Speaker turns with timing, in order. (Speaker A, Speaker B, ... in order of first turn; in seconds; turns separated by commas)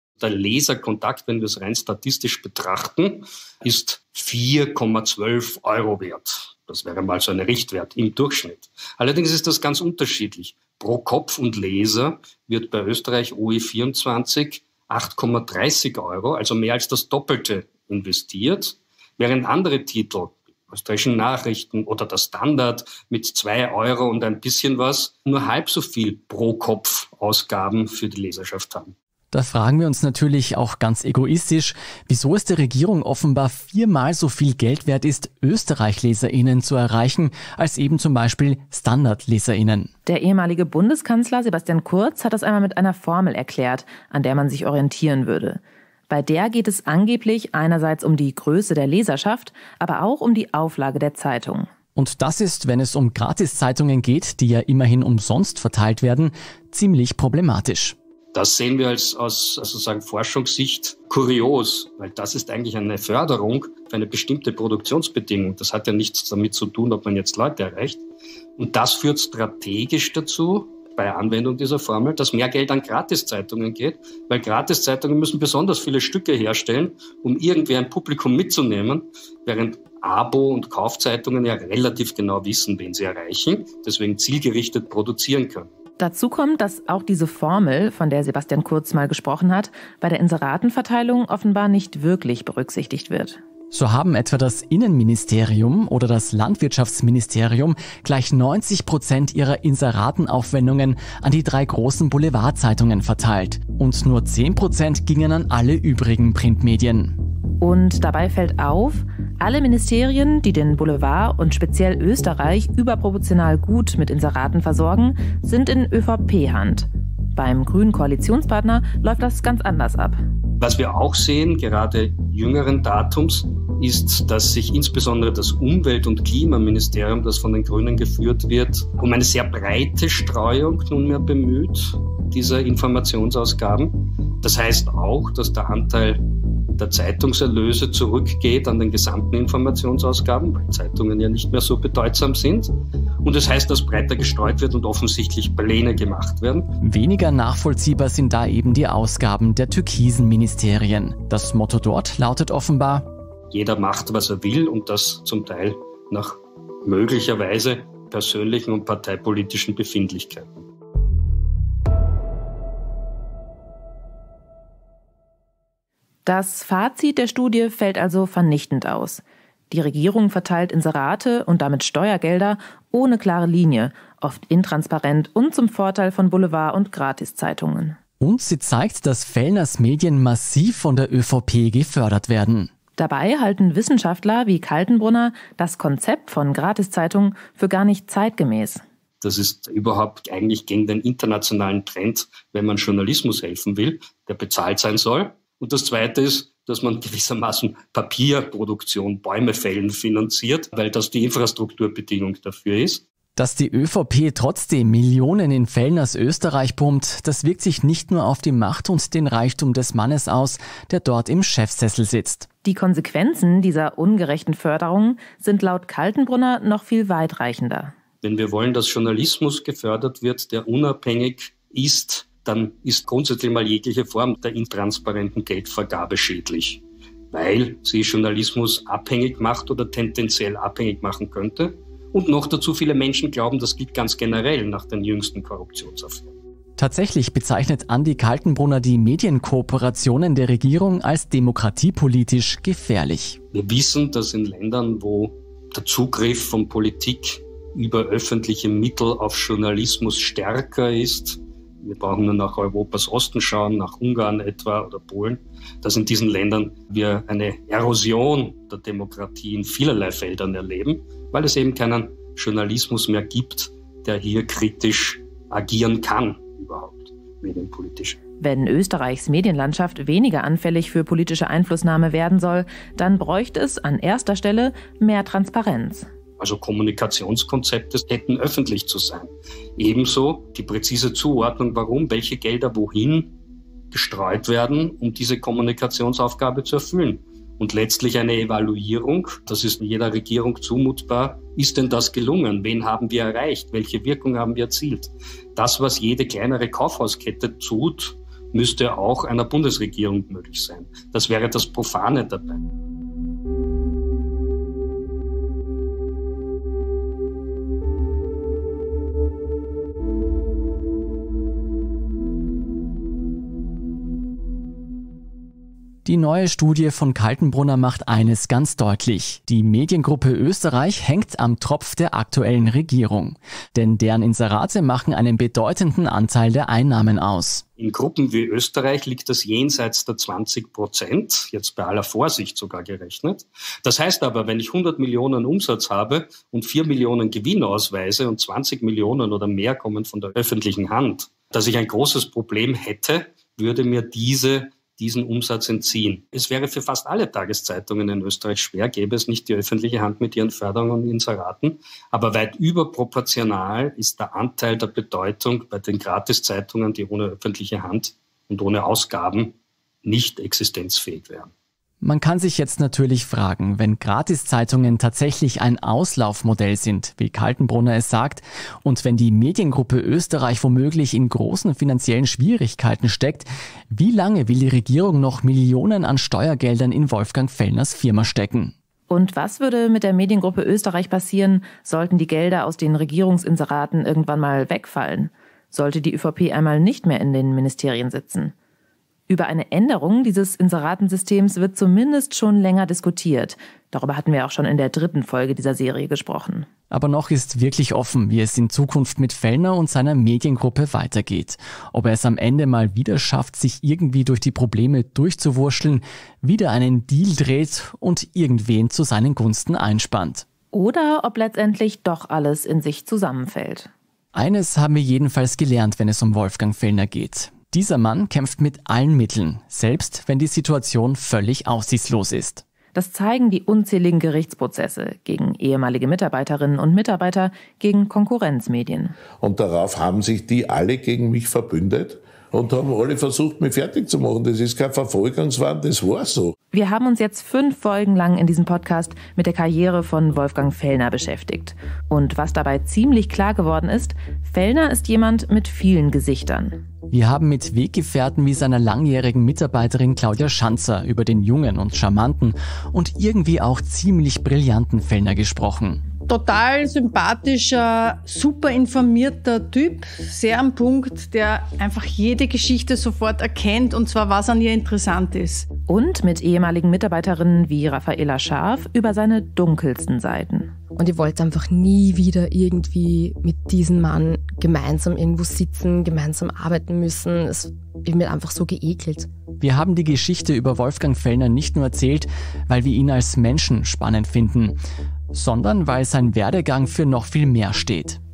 Speaker A: 0.2-28.9, Speaker B: 29.3-39.9, Speaker C: 40.1-51.7, Speaker B: 52.0-58.0, Speaker A: 58.3-68.0, Speaker A: 68.6-85.7, Speaker C: 86.0-93.4, Speaker B: 93.7-107.2, Speaker C: 107.6-120.2, Speaker A: 120.6-136.2, Speaker A: 136.8-142.7, Speaker A: 143.2-146.7, Speaker B: 146.8-153.1, Speaker A: 153.5-160.5, Speaker C: 166.2-178.0, Speaker B: 178.2-182.7, Speaker C: 183.0-188.8, Speaker A: 189.2-203.0, Speaker B: 203.3-212.5, Speaker C: 212.6-217.9, Speaker A: 218.2-236.3, Speaker B: 236.8-243.4, Speaker A: 243.5-268.2, Speaker C: 268.4-276.1, Speaker A: 276.4-283.3, Speaker A: 283.9-302.6, Speaker B: 316.0-327.6, Speaker A: 327.8-361.5, Speaker B: 362.0-378.7, Speaker C: 379.1-388.5, Speaker C: 389.3-396.7, Speaker B: 396.9-410.4, Speaker C: 410.7-413.9, Speaker B: 414.3-422.6, Speaker C: 422.9-429.1, Speaker D: 429.4-436.5, Speaker C: 436.7-446.8, Speaker B: 447.1-456.0, Speaker E: 456.3-465.7, Speaker C: 465.9-470.7, Speaker F: 470.9-479.3, Speaker B: 479.6-484.8, Speaker B: 485.3-488.2